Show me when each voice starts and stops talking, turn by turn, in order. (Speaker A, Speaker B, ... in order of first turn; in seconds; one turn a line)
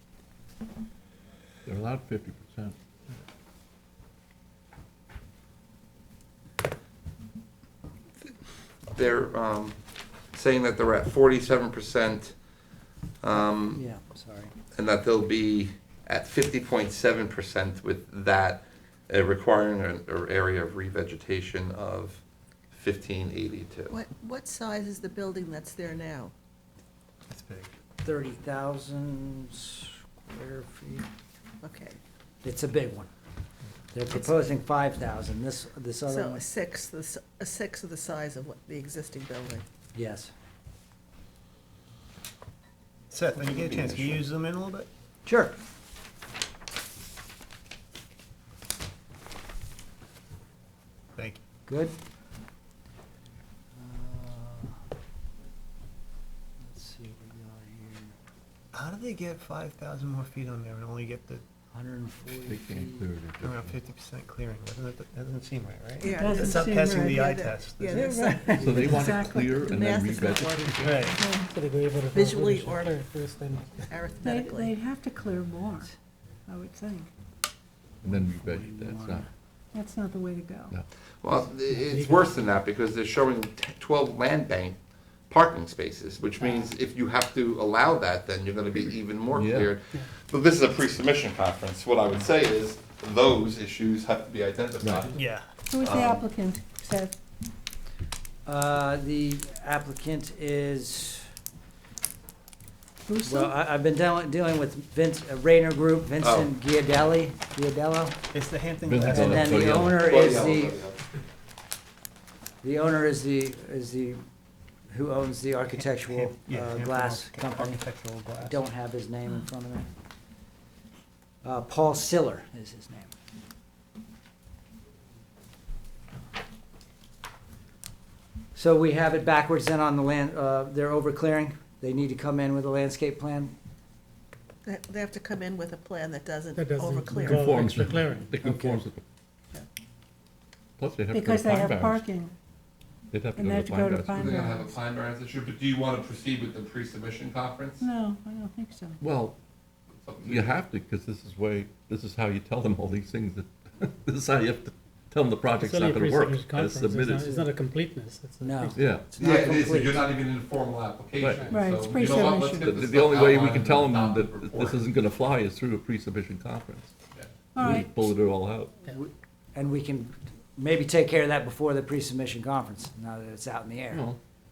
Speaker A: 1.7-2.8
Speaker B: 8.9-9.8
Speaker B: 10.3-12.4
Speaker B: 13.2-13.9
Speaker C: 13.7-14.5
Speaker B: 14.8-24.0
Speaker D: 23.9-26.3
Speaker E: 27.3-27.7
Speaker C: 28.0-31.1
Speaker D: 31.6-32.0
Speaker C: 32.4-33.1
Speaker C: 33.9-36.5
Speaker D: 34.1-34.4
Speaker D: 36.1-39.6
Speaker C: 39.9-40.3
Speaker E: 43.1-44.9
Speaker B: 43.4-44.2
Speaker C: 45.2-45.6
Speaker E: 51.2-51.4
Speaker C: 51.7-52.0
Speaker C: 53.8-54.8
Speaker C: 56.6-58.1
Speaker E: 58.7-61.4
Speaker C: 61.7-63.1
Speaker A: 62.4-63.8
Speaker E: 63.4-68.0
Speaker D: 66.0-69.0
Speaker F: 66.2-67.3
Speaker C: 67.9-69.0
Speaker F: 68.0-69.7
Speaker A: 68.5-71.1
Speaker D: 69.6-71.4
Speaker E: 70.8-71.1
Speaker F: 70.8-71.5
Speaker G: 71.4-74.0
Speaker D: 72.1-73.0
Speaker D: 73.9-74.7
Speaker F: 74.2-75.9
Speaker F: 76.5-77.1
Speaker A: 78.0-79.2
Speaker C: 78.0-79.3
Speaker F: 79.7-80.8
Speaker B: 81.2-84.8
Speaker G: 81.7-82.5
Speaker B: 85.3-95.2
Speaker A: 89.3-89.7
Speaker A: 94.8-95.1
Speaker E: 95.2-95.5
Speaker F: 95.7-97.2
Speaker B: 95.8-96.3
Speaker C: 98.5-101.3
Speaker F: 103.1-103.5
Speaker C: 103.2-108.2
Speaker B: 106.2-106.5
Speaker E: 108.3-109.8
Speaker A: 108.9-110.1
Speaker C: 109.0-110.9
Speaker B: 109.9-111.0
Speaker C: 112.6-114.2
Speaker C: 114.9-117.8
Speaker E: 115.7-118.6
Speaker C: 118.4-119.9
Speaker C: 121.4-123.1
Speaker C: 128.5-133.6
Speaker D: 134.7-137.5
Speaker G: 136.5-138.8
Speaker A: 137.3-139.0
Speaker A: 140.8-142.1
Speaker F: 141.1-142.3
Speaker A: 143.1-144.4
Speaker F: 143.4-144.8
Speaker B: 144.1-147.8
Speaker F: 147.8-149.0
Speaker A: 149.0-149.3
Speaker B: 150.1-150.6
Speaker A: 150.2-157.5
Speaker G: 155.6-158.8
Speaker C: 158.4-160.1
Speaker A: 158.7-159.1
Speaker B: 159.2-164.8
Speaker A: 161.2-161.6
Speaker F: 161.5-162.7
Speaker A: 162.6-166.9
Speaker F: 167.6-167.9
Speaker A: 167.6-168.7
Speaker C: 168.8-174.1
Speaker A: 173.9-174.2